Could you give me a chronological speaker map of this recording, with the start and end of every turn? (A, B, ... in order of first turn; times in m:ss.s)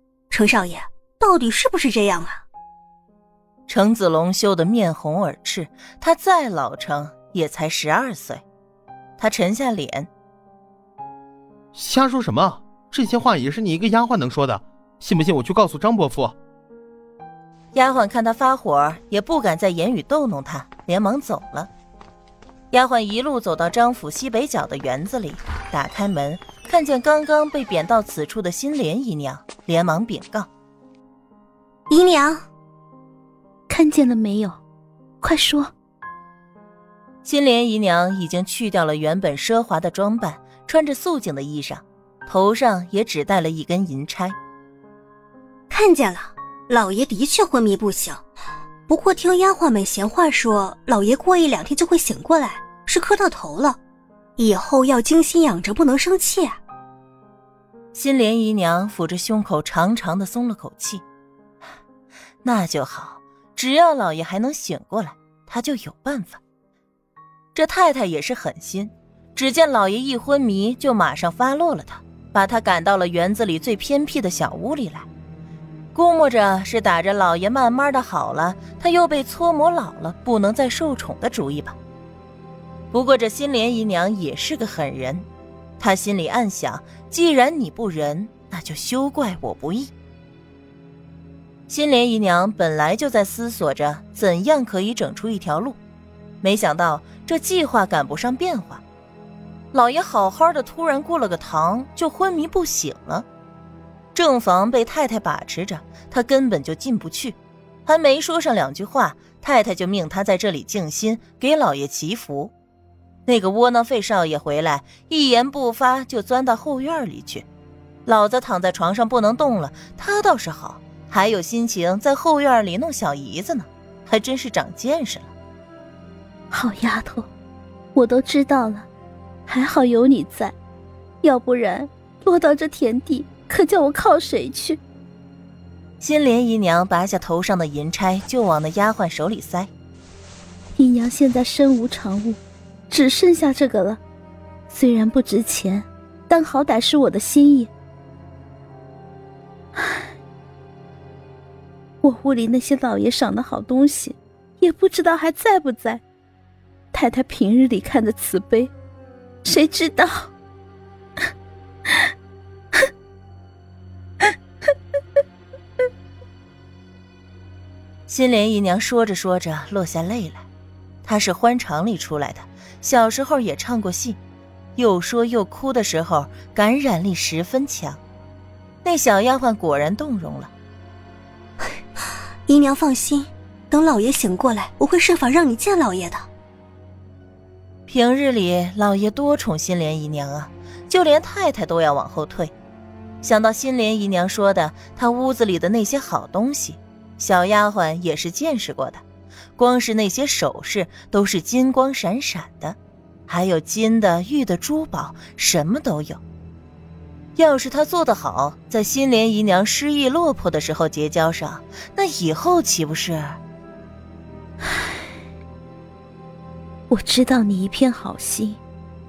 0:00.3-0:02.4 A
0:03.7-0:08.4 B
0:09.2-0:10.1 B
0:11.8-0:16.4 C
0:17.7-0:21.7 B
0:22.7-0:30.5 B
0:31.9-0:32.5 A
0:33.7-0:34.6 D
0:35.2-0:35.7 D
0:37.2-0:44.4 B
0:45.7-0:48.2 A
0:48.9-0:53.8 A
0:54.4-0:56.6 A
0:57.9-1:01.0 B
1:02.4-1:06.4 B
1:07.6-1:15.1 B
1:15.9-1:21.8 B
1:22.9-1:25.3 B
1:25.8-1:29.9 B
1:31.7-1:35.8 B
1:36.4-1:38.8 B
1:39.7-1:43.3 B
1:44.2-1:52.5 B
1:53.3-1:57.5 B
1:58.1-2:05.3 B
2:06.5-2:07.3 D
2:08.0-2:08.9 D
2:09.5-2:10.6 D
2:11.2-2:14.8 D
2:16.0-2:19.7 B
2:20.8-2:22.4 D
2:22.9-2:24.0 D
2:24.7-2:27.7 D
2:29.8-2:30.1 D
2:32.0-2:36.0 D
2:36.9-2:38.7 D
2:39.4-2:40.3 D
2:48.1-2:50.5 B
2:51.0-2:54.2 B
2:54.8-2:58.0 B
2:58.8-3:00.5 B
3:02.5-3:06.3 A
3:07.9-3:12.5 B
3:13.2-3:19.0 B
3:19.6-3:22.8 B
3:23.3-3:26.2 B
3:27.4-3:33.4 B
3:36.9-3:38.6 D